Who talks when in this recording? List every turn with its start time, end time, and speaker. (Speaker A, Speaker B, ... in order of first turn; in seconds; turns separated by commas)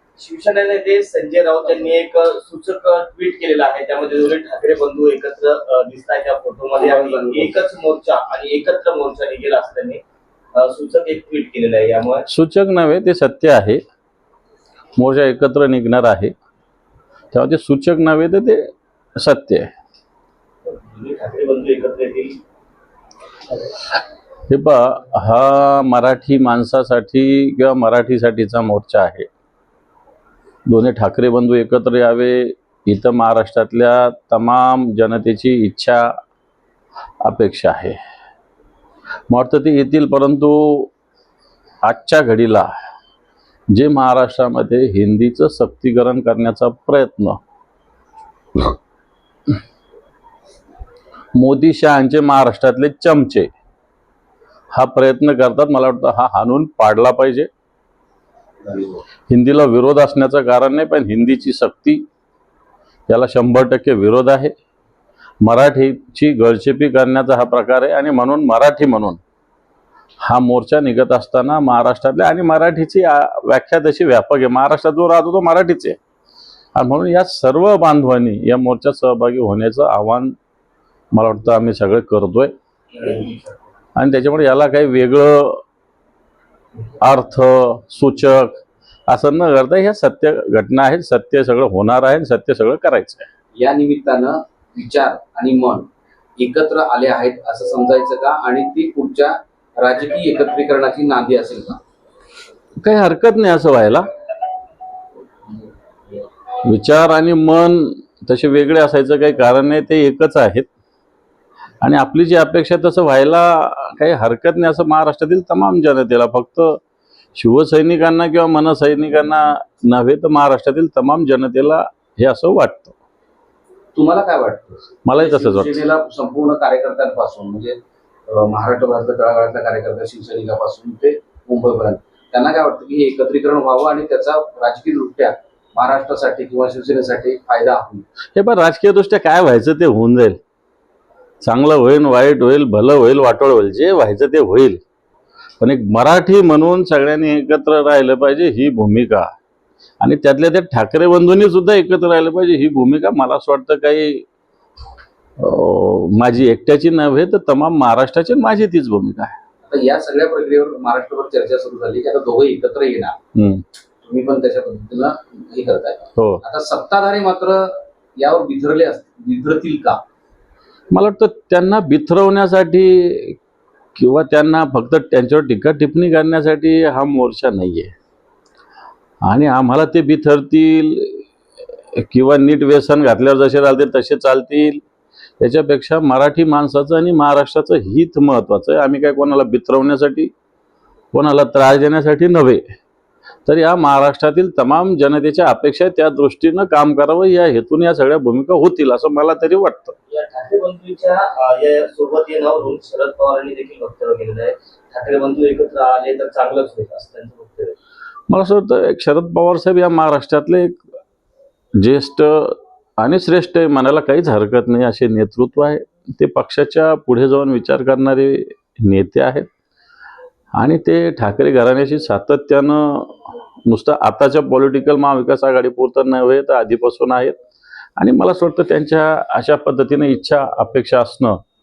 Speaker A: 0.2-10.0, Speaker B: 6.8-7.5, Speaker A: 10.5-12.2, Speaker C: 12.3-13.8, Speaker C: 15.0-16.3, Speaker C: 17.3-19.7, Speaker A: 20.7-22.4, Speaker C: 24.5-29.3, Speaker C: 30.7-36.1, Speaker C: 37.2-38.0, Speaker C: 39.3-40.9, Speaker C: 41.8-42.7, Speaker C: 43.7-47.4, Speaker C: 51.4-53.5, Speaker C: 54.7-57.5, Speaker B: 58.6-59.0, Speaker C: 59.3-62.0, Speaker C: 63.1-64.5, Speaker C: 65.4-69.2, Speaker C: 70.2-76.0, Speaker C: 76.8-80.4, Speaker C: 81.1-82.5, Speaker A: 82.9-83.4, Speaker C: 84.0-85.6, Speaker C: 87.0-93.3, Speaker B: 93.5-101.8, Speaker C: 102.8-104.0, Speaker C: 106.6-110.7, Speaker C: 111.8-116.8, Speaker C: 117.4-123.0, Speaker B: 124.0-138.1, Speaker C: 125.0-125.8, Speaker C: 138.3-140.4, Speaker C: 141.4-144.8, Speaker C: 145.6-149.3, Speaker C: 150.0-154.2, Speaker C: 155.4-159.4, Speaker B: 159.7-163.2, Speaker C: 163.3-163.6, Speaker B: 164.0-170.0, Speaker C: 170.9-173.4, Speaker C: 174.0-177.9, Speaker C: 179.2-181.3, Speaker C: 182.0-184.8, Speaker C: 185.4-190.3, Speaker C: 191.1-192.6, Speaker C: 193.5-200.0, Speaker A: 200.1-207.8, Speaker C: 208.3-210.8, Speaker C: 211.8-219.5, Speaker C: 220.6-227.4, Speaker C: 228.0-231.4